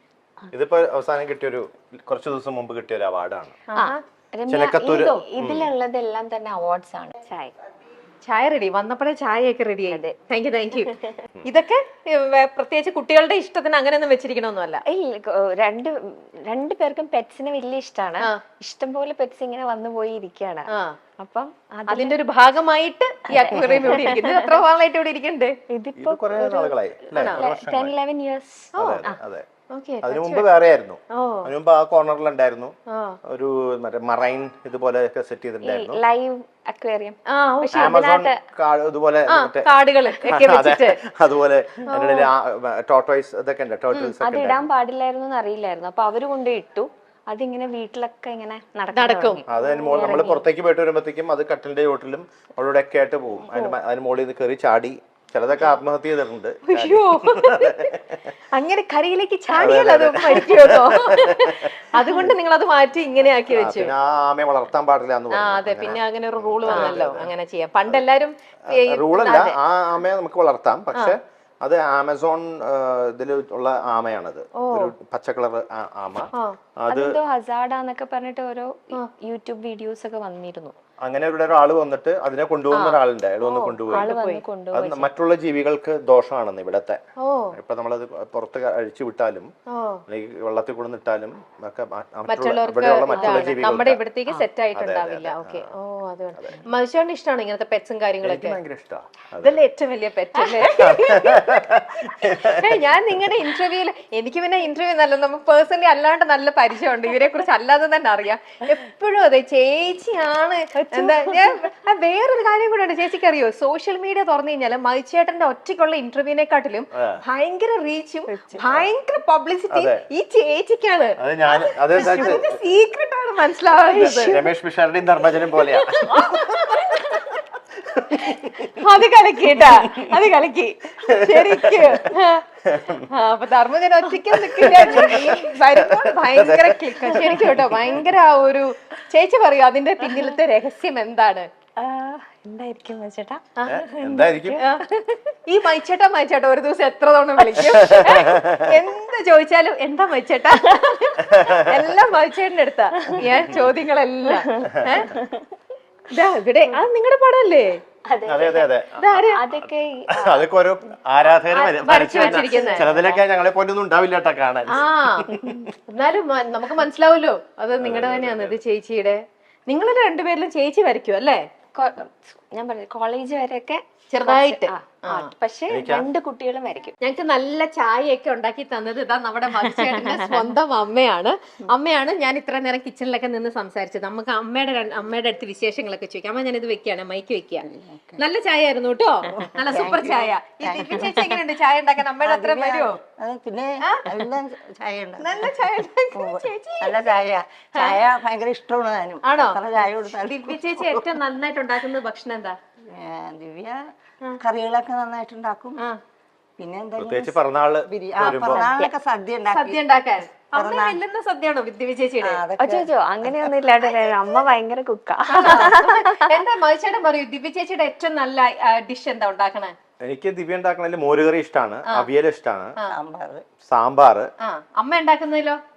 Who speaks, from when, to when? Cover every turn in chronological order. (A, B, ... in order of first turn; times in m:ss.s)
0:00.5-0:03.6 A
0:03.7-0:04.0 B
0:03.7-0:07.5 C
0:04.5-0:05.7 A
0:08.2-0:10.9 B
0:11.4-0:14.8 B
0:14.9-0:22.2 C
0:20.7-0:21.0 B
0:21.9-0:25.6 B
0:23.4-0:24.4 C
0:25.7-0:29.2 C
0:26.0-0:27.9 A
0:27.1-0:27.4 B
0:28.8-0:29.4 A
0:28.8-0:29.0 B
0:29.7-0:30.4 B
0:30.0-0:36.0 A
0:31.1-0:31.5 B
0:32.9-0:33.2 B
0:35.6-0:38.4 C
0:37.3-0:38.0 B
0:37.7-0:44.7 A
0:39.3-0:41.0 B
0:41.9-0:42.3 B
0:44.2-0:50.4 C
0:48.9-0:50.4 B
0:49.5-0:58.2 A
0:56.6-0:57.9 B
0:58.5-1:03.9 B
0:59.5-1:02.3 A
1:03.5-1:07.3 A
1:05.3-1:09.6 B
1:08.7-1:17.2 A
1:14.6-1:14.9 B
1:16.9-1:20.7 C
1:21.0-1:24.1 A
1:22.7-1:24.4 B
1:23.9-1:25.1 C
1:24.7-1:27.0 A
1:27.2-1:27.6 B
1:27.5-1:29.5 A
1:29.7-1:30.0 B
1:30.1-1:34.0 A
1:32.3-1:38.6 B
1:33.1-1:33.7 C
1:34.7-1:35.7 A
1:36.3-1:36.6 A
1:38.2-1:39.6 A
1:39.4-2:04.5 B
1:40.4-1:40.7 C
1:40.8-1:43.0 A
1:50.8-1:51.5 C
1:56.9-1:57.2 A
1:58.3-1:58.6 C
1:59.7-2:00.0 A
2:01.2-2:02.5 A
2:02.1-2:02.4 C
2:03.7-2:06.5 A
2:05.5-2:07.4 B
2:07.8-2:08.7 A
2:08.2-2:12.4 B
2:09.5-2:10.2 A
2:11.0-2:13.1 A
2:13.1-2:21.5 B
2:14.3-2:18.1 A
2:14.9-2:15.1 C
2:21.8-2:24.6 C
2:23.6-2:23.8 B
2:23.7-2:24.6 A
2:24.6-2:35.1 B
2:27.7-2:28.6 A
2:31.4-2:31.6 A
2:34.5-2:35.5 C
2:36.1-2:37.8 B
2:38.0-2:38.7 C
2:38.2-2:45.7 A
2:39.0-2:39.4 B
2:39.3-2:40.5 C
2:41.5-2:42.8 B
2:42.1-2:43.2 C
2:44.7-2:45.3 B
2:45.9-2:51.4 B
2:47.8-2:48.6 A
2:51.7-2:56.9 C
2:54.1-2:55.3 B
2:55.7-2:56.1 A
2:57.0-3:13.0 B
3:00.0-3:00.3 C
3:07.7-3:08.2 D
3:09.5-3:11.3 D
3:12.2-3:15.5 D
3:13.8-3:14.3 B
3:15.2-3:17.1 B
3:16.1-3:20.9 D
3:17.7-3:18.1 B
3:19.2-3:22.6 B
3:22.9-3:25.8 D
3:26.6-3:29.8 D
3:27.0-3:28.7 A
3:28.2-3:28.7 B
3:29.4-3:32.4 B
3:30.5-3:31.0 D
3:32.2-3:32.9 D
3:32.6-3:36.3 C
3:35.3-3:39.7 B
3:40.0-3:42.7 A
3:42.9-3:43.4 D
3:43.7-3:44.3 A
3:44.4-3:45.6 B